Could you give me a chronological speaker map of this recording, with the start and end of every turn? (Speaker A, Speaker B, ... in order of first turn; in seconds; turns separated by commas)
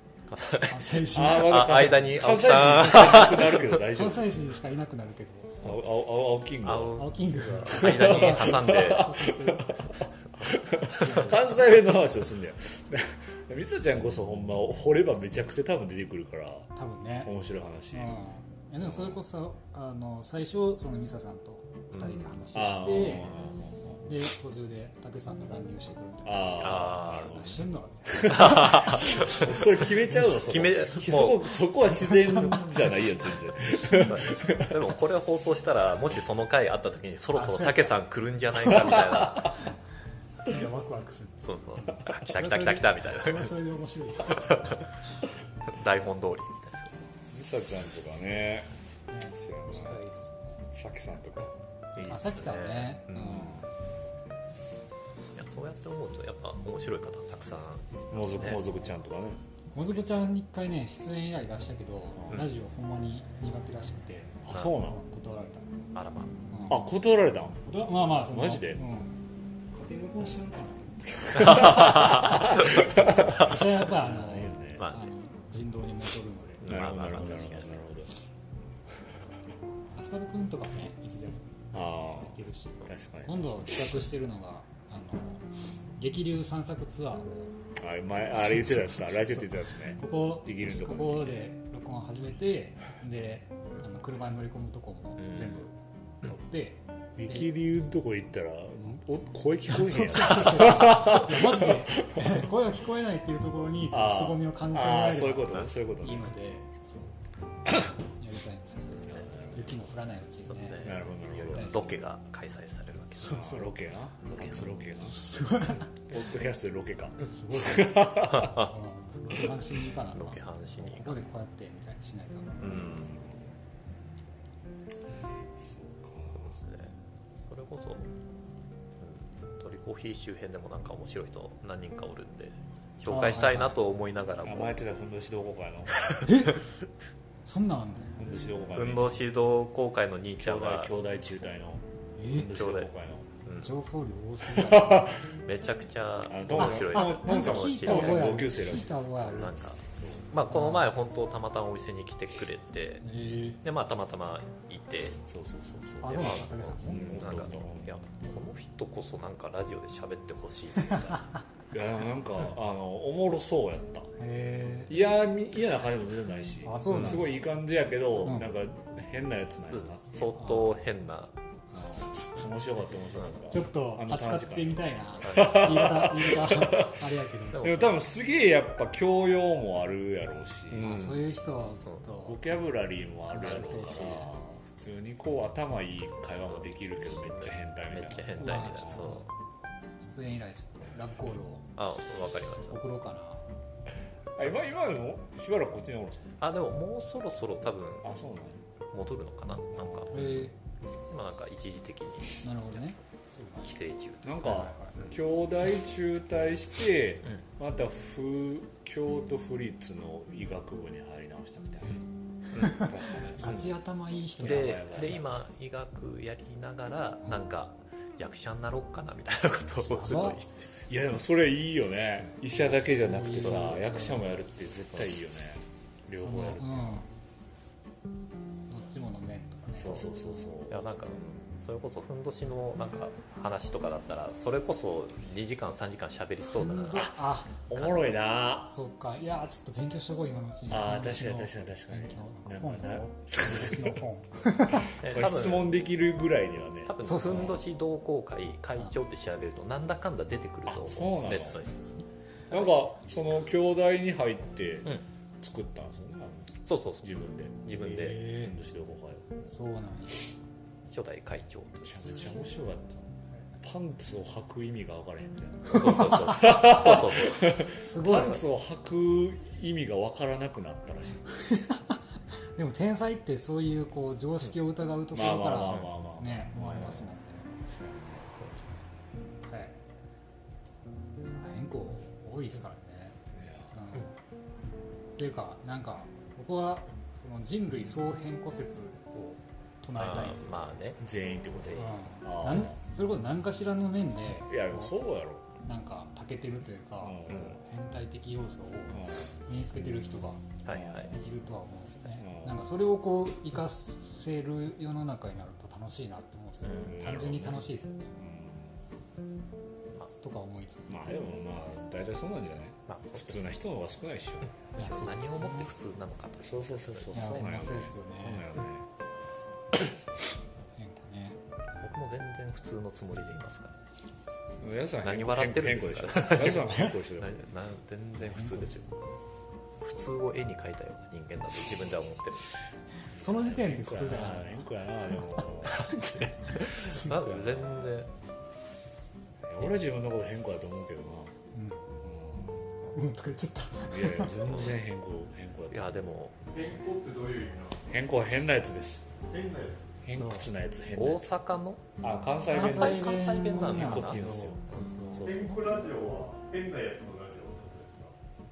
Speaker A: 0.3-3.8, Speaker B: 0.7-1.9, Speaker C: 1.1-4.3, Speaker B: 3.8-5.7, Speaker C: 5.6-7.0, Speaker A: 6.6-9.2, Speaker B: 7.0-9.9, Speaker C: 7.8-16.7, Speaker B: 11.0-11.4, Speaker B: 16.8-17.3, Speaker C: 17.2-18.2, Speaker B: 17.9-23.3, Speaker C: 18.8-19.2, Speaker A: 21.9-22.2, Speaker C: 22.5-24.0, Speaker B: 24.0-29.4, Speaker C: 26.2-34.8, Speaker A: 26.6-27.4, Speaker A: 28.3-31.5, Speaker B: 32.1-32.7, Speaker A: 33.7-39.5, Speaker B: 37.3-37.9, Speaker B: 40.4-41.5, Speaker A: 41.4-43.5, Speaker B: 42.0-44.8, Speaker A: 44.3-44.8, Speaker A: 45.7-47.0, Speaker C: 47.3-48.7, Speaker B: 49.1-50.6, Speaker C: 49.3-50.0, Speaker C: 50.7-52.3, Speaker A: 52.0-53.5, Speaker B: 52.1-53.6, Speaker C: 53.1-53.7, Speaker A: 55.3-58.6, Speaker C: 58.1-59.4, Speaker B: 58.4-58.8, Speaker B: 59.7-65.7, Speaker C: 62.2-62.4, Speaker C: 64.4-65.0, Speaker A: 65.9-66.3, Speaker B: 66.5-66.8, Speaker C: 66.7-68.8, Speaker B: 67.6-69.2, Speaker B: 69.7-76.7, Speaker C: 71.4-74.9, Speaker A: 71.5-72.9, Speaker A: 74.8-75.0, Speaker A: 76.6-77.8, Speaker C: 76.6-78.1, Speaker B: 79.9-87.5, Speaker C: 81.7-83.7, Speaker C: 87.8-91.5, Speaker B: 90.0-97.5, Speaker C: 97.2-102.4, Speaker B: 99.7-107.1, Speaker C: 103.9-106.3, Speaker B: 108.2-110.9, Speaker C: 109.0-109.8, Speaker A: 110.5-113.6, Speaker C: 110.8-111.7, Speaker B: 111.5-112.0, Speaker B: 113.2-113.7, Speaker C: 113.2-115.3, Speaker A: 114.2-114.7, Speaker B: 115.0-115.9, Speaker C: 116.1-118.7, Speaker B: 117.3-123.0, Speaker A: 118.3-118.7, Speaker A: 120.1-121.2, Speaker A: 122.6-123.2, Speaker C: 122.7-123.5, Speaker C: 125.5-126.5, Speaker A: 126.3-128.1, Speaker A: 129.0-134.8, Speaker B: 133.1-133.8, Speaker C: 134.4-136.0, Speaker A: 135.9-136.3, Speaker B: 136.2-136.6, Speaker B: 137.4-138.2, Speaker C: 138.2-139.2, Speaker A: 138.7-140.9, Speaker C: 140.4-143.3, Speaker B: 142.2-142.5, Speaker A: 142.5-142.9, Speaker A: 143.4-143.7, Speaker B: 143.6-145.1, Speaker C: 144.4-145.2, Speaker A: 145.4-153.0, Speaker C: 146.3-149.0, Speaker B: 146.5-149.6, Speaker B: 150.5-150.9, Speaker B: 153.0-153.6, Speaker A: 153.6-155.2, Speaker C: 155.2-157.9, Speaker B: 156.0-157.3, Speaker A: 156.1-161.3, Speaker C: 161.7-164.1, Speaker B: 164.2-164.9, Speaker C: 164.9-170.5, Speaker B: 166.6-167.3, Speaker B: 168.2-168.5, Speaker A: 169.7-171.3, Speaker C: 171.7-181.1, Speaker B: 173.5-177.9, Speaker A: 175.2-175.7, Speaker A: 177.5-178.0, Speaker B: 180.7-182.4, Speaker A: 180.8-181.1, Speaker C: 182.2-189.1, Speaker B: 183.3-184.3, Speaker A: 183.5-184.1, Speaker A: 186.4-189.3, Speaker B: 188.4-189.3, Speaker B: 190.0-191.7, Speaker A: 191.8-192.8, Speaker B: 192.7-193.4, Speaker C: 194.3-196.3, Speaker A: 196.4-198.1, Speaker C: 198.0-198.6, Speaker A: 198.9-200.2, Speaker C: 199.8-200.4, Speaker B: 200.1-200.5, Speaker A: 201.1-202.4, Speaker B: 202.4-203.7, Speaker A: 203.6-205.1, Speaker C: 204.2-212.0, Speaker B: 204.4-205.0, Speaker B: 212.6-215.2, Speaker C: 212.6-213.7, Speaker C: 214.4-215.3, Speaker A: 214.4-220.7, Speaker B: 220.0-220.4, Speaker C: 220.9-227.0, Speaker B: 222.7-224.3, Speaker B: 226.2-227.1, Speaker B: 228.7-230.1, Speaker C: 229.8-231.0, Speaker A: 230.7-237.1, Speaker B: 236.5-237.6, Speaker C: 236.9-238.7, Speaker B: 238.7-245.0, Speaker C: 240.7-244.0, Speaker C: 244.7-247.6, Speaker A: 244.9-245.7, Speaker A: 246.8-253.2, Speaker B: 247.0-247.5, Speaker C: 250.7-251.6, Speaker C: 252.5-259.5, Speaker A: 256.7-258.3, Speaker B: 258.0-258.5, Speaker B: 259.5-260.2, Speaker A: 260.9-262.3, Speaker C: 261.8-271.4, Speaker A: 265.7-268.4, Speaker B: 267.7-268.4, Speaker B: 271.4-272.0, Speaker B: 272.6-277.6, Speaker C: 275.1-277.1, Speaker C: 277.6-278.3, Speaker B: 279.4-279.8, Speaker B: 281.2-283.2, Speaker C: 283.3-283.8, Speaker B: 283.7-284.1, Speaker B: 285.2-290.7, Speaker A: 290.0-291.0, Speaker C: 291.0-292.8, Speaker B: 291.7-294.9, Speaker C: 294.5-295.5, Speaker B: 295.6-300.4, Speaker C: 297.0-297.6, Speaker C: 298.9-299.3, Speaker A: 300.6-301.1, Speaker C: 300.7-301.1, Speaker B: 301.0-308.1, Speaker C: 302.2-302.6, Speaker C: 306.8-308.8, Speaker B: 310.2-311.2, Speaker C: 310.9-314.5, Speaker A: 312.9-313.4, Speaker A: 314.7-317.6, Speaker B: 314.8-315.7, Speaker C: 316.4-318.9, Speaker B: 317.1-318.5, Speaker B: 320.8-321.4, Speaker A: 321.8-323.7, Speaker C: 324.6-327.5, Speaker A: 325.0-329.0, Speaker B: 328.2-328.7, Speaker A: 329.8-332.5, Speaker B: 333.0-334.6, Speaker C: 333.2-337.9, Speaker A: 335.6-338.1, Speaker C: 339.4-341.3, Speaker B: 341.5-341.9, Speaker C: 342.0-342.6, Speaker B: 342.9-344.5, Speaker C: 343.9-346.2, Speaker A: 344.4-344.8, Speaker A: 345.7-346.4, Speaker D: 346.5-347.9, Speaker C: 347.9-349.0, Speaker D: 349.3-349.9, Speaker C: 350.0-351.3, Speaker B: 350.1-350.5, Speaker A: 350.9-351.8, Speaker C: 352.0-355.6, Speaker A: 352.5-354.3, Speaker B: 352.5-355.4, Speaker D: 355.2-358.1